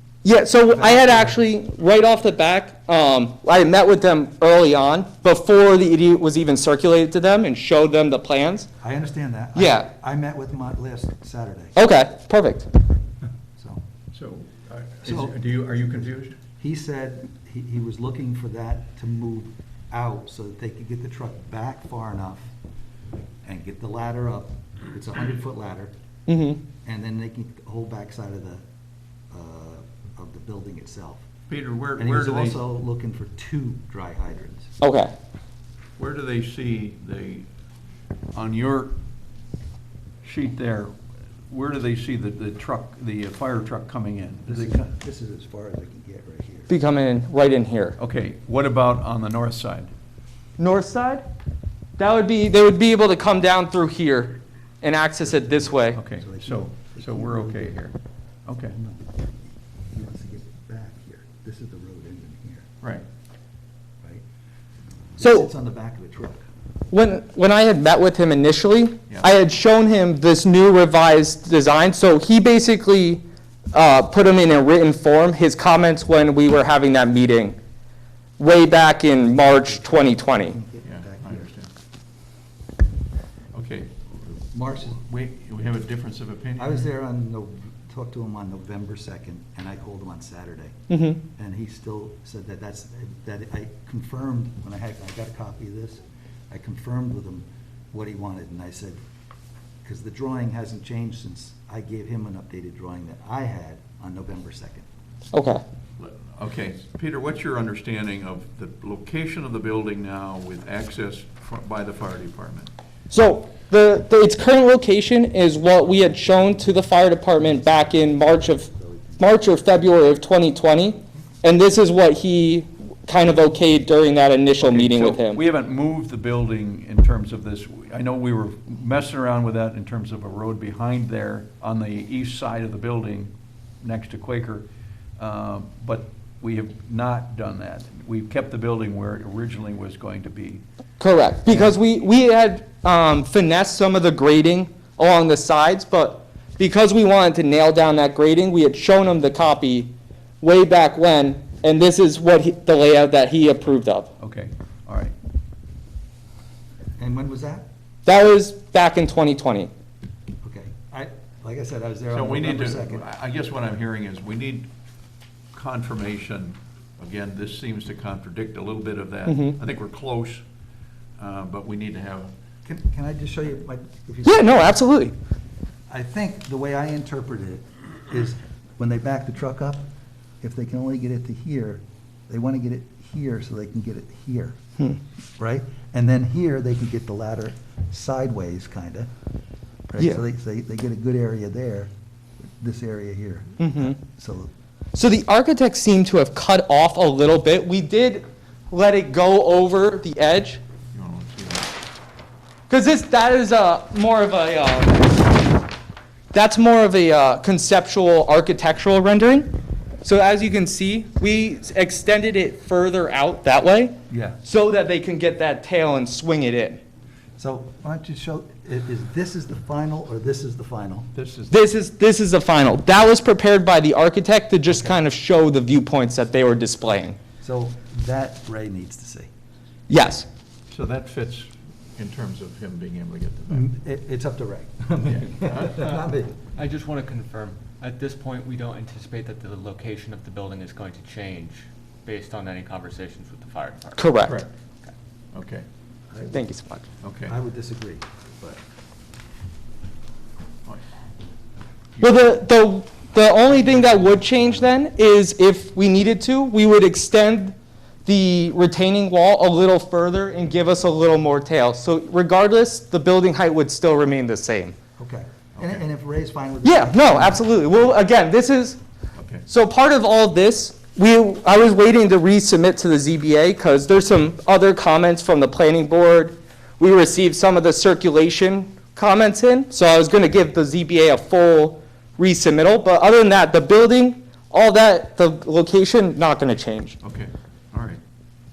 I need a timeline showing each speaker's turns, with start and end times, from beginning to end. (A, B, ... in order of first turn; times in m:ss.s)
0:00.2-0:08.7 A
0:00.7-0:01.4 B
0:08.8-0:11.8 B
0:09.6-0:09.9 A
0:11.8-0:12.7 A
0:14.1-0:16.4 C
0:15.0-0:15.4 B
0:16.6-0:22.5 B
0:23.4-0:25.9 B
0:26.3-0:26.6 A
0:26.8-0:28.6 B
0:29.3-0:31.3 B
0:31.5-0:32.6 C
0:32.0-0:34.7 B
0:34.8-0:35.1 A
0:36.0-0:37.5 C
0:38.3-0:39.0 C
0:40.2-0:40.9 C
0:41.5-0:44.8 C
0:44.5-0:46.7 B
0:46.7-0:48.0 A
0:48.0-0:49.9 C
0:50.6-0:51.2 A
0:52.0-0:56.0 A
0:55.2-0:57.8 B
0:55.9-0:58.0 C
0:58.5-0:58.8 C
0:58.7-0:59.1 B
0:59.9-1:02.7 B
1:05.2-1:06.5 B
1:05.2-1:05.5 A
1:06.9-1:17.6 A
1:18.4-1:20.6 A
1:19.2-1:21.5 B
1:20.8-1:21.7 C
1:23.5-1:26.9 C
1:24.5-1:25.0 B
1:26.6-1:30.8 B
1:30.9-1:31.2 A
1:31.4-1:39.0 B
1:39.8-1:44.8 B
1:45.3-1:45.6 A
1:46.0-1:52.7 C
1:53.1-2:05.4 A
1:57.4-1:59.9 B
2:04.6-2:14.7 C
2:15.2-2:20.6 C
2:21.0-2:34.1 A
2:21.5-2:21.8 B
2:34.2-2:35.2 C
2:37.0-2:37.7 B
2:38.1-2:39.7 A
2:40.4-2:43.0 B
2:42.1-2:44.7 C
2:45.5-2:50.4 C
2:49.3-2:49.6 A
2:51.2-2:52.3 C
2:52.6-2:54.8 B
2:54.2-2:55.1 A
2:55.9-2:59.9 B
3:00.4-3:04.6 B
3:05.4-3:09.1 B
3:09.9-3:11.9 B
3:10.0-3:10.2 A
3:12.6-3:14.5 B
3:13.6-3:14.0 A
3:14.9-3:20.6 A
3:20.9-3:21.7 C
3:22.7-3:25.2 A
3:26.3-3:29.5 A
3:30.0-3:36.8 A
3:34.1-3:34.4 B
3:37.4-3:41.1 B
3:41.2-3:41.5 C
3:41.5-3:47.2 A
3:47.4-3:49.3 B
3:49.9-3:50.3 A
3:50.7-3:53.7 C
3:53.5-3:56.4 B
3:55.1-3:55.8 C
3:56.6-4:04.1 D
4:04.0-4:04.4 A
4:04.2-4:04.5 C
4:05.3-4:05.6 C
4:06.1-4:06.4 B
4:06.3-4:06.9 A
4:07.0-4:07.3 C
4:07.3-4:08.6 B
4:12.0-4:24.8 A
4:13.7-4:14.6 B
4:25.0-4:27.9 B
4:25.6-4:25.8 C
4:26.6-4:28.8 A
4:29.2-4:29.4 C
4:29.5-4:47.0 A
4:47.0-4:48.0 C